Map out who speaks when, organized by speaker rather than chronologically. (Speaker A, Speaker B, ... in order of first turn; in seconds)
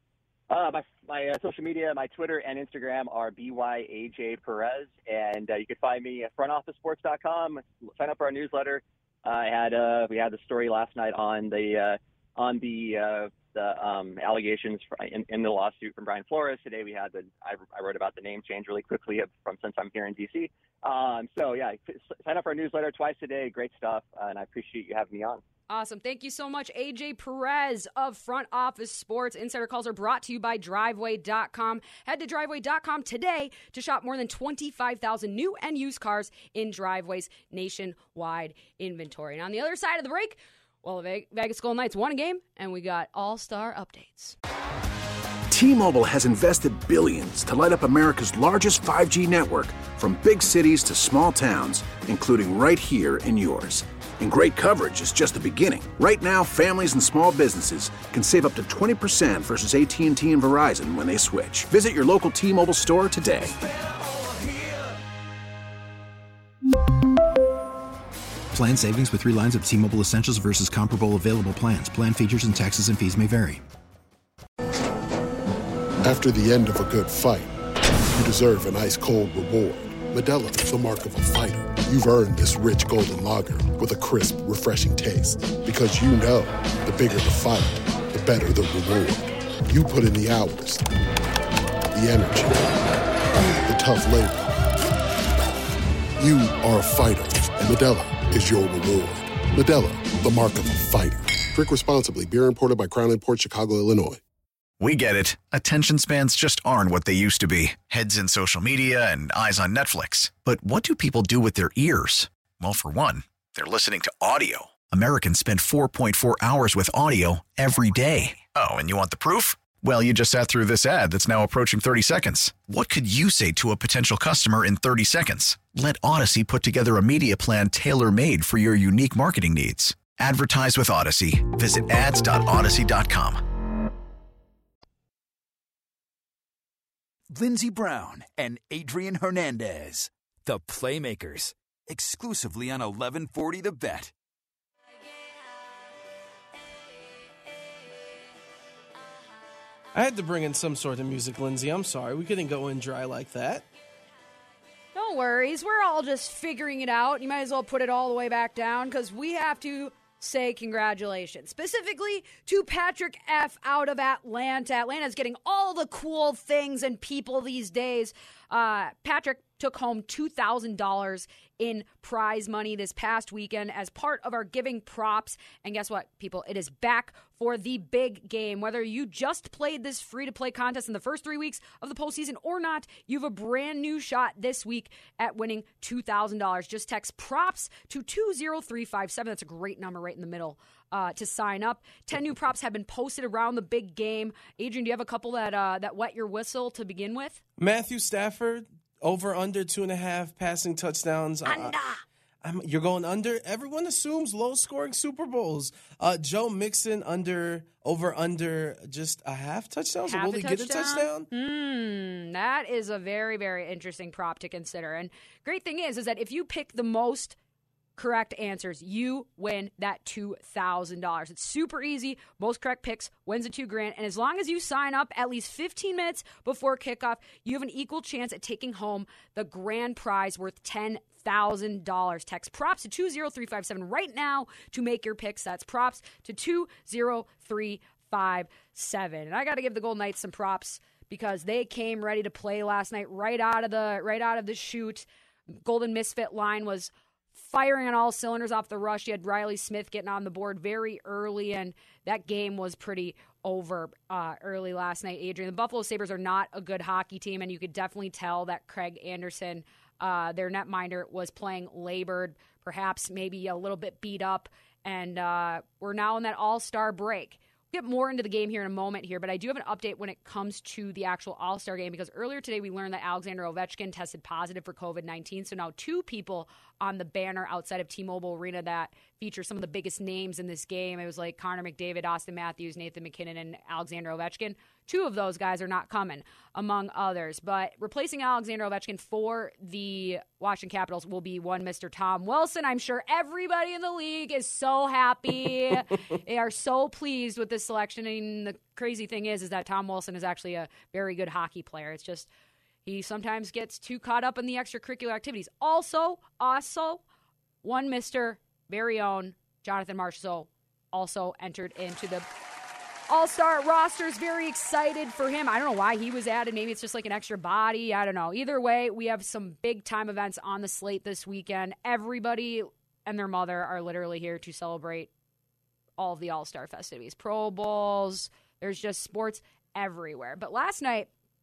Speaker A: 0.5-25.4
Speaker B: 25.7-44.4, 154.9-197.4, 201.5-202.0, 210.1-217.4, 218.0-245.1, 245.6-302.3, 302.8-307.0, 307.6-312.3, 313.1-325.1, 326.0-331.1
Speaker C: 45.5-63.5
Speaker D: 68.5-73.6
Speaker E: 76.0-77.5, 78.1-90.9, 91.9-92.7, 93.6-94.5, 96.2-104.2
Speaker F: 104.8-133.4
Speaker G: 137.3-144.1
Speaker H: 149.9-153.6, 197.6-201.8, 202.4-211.3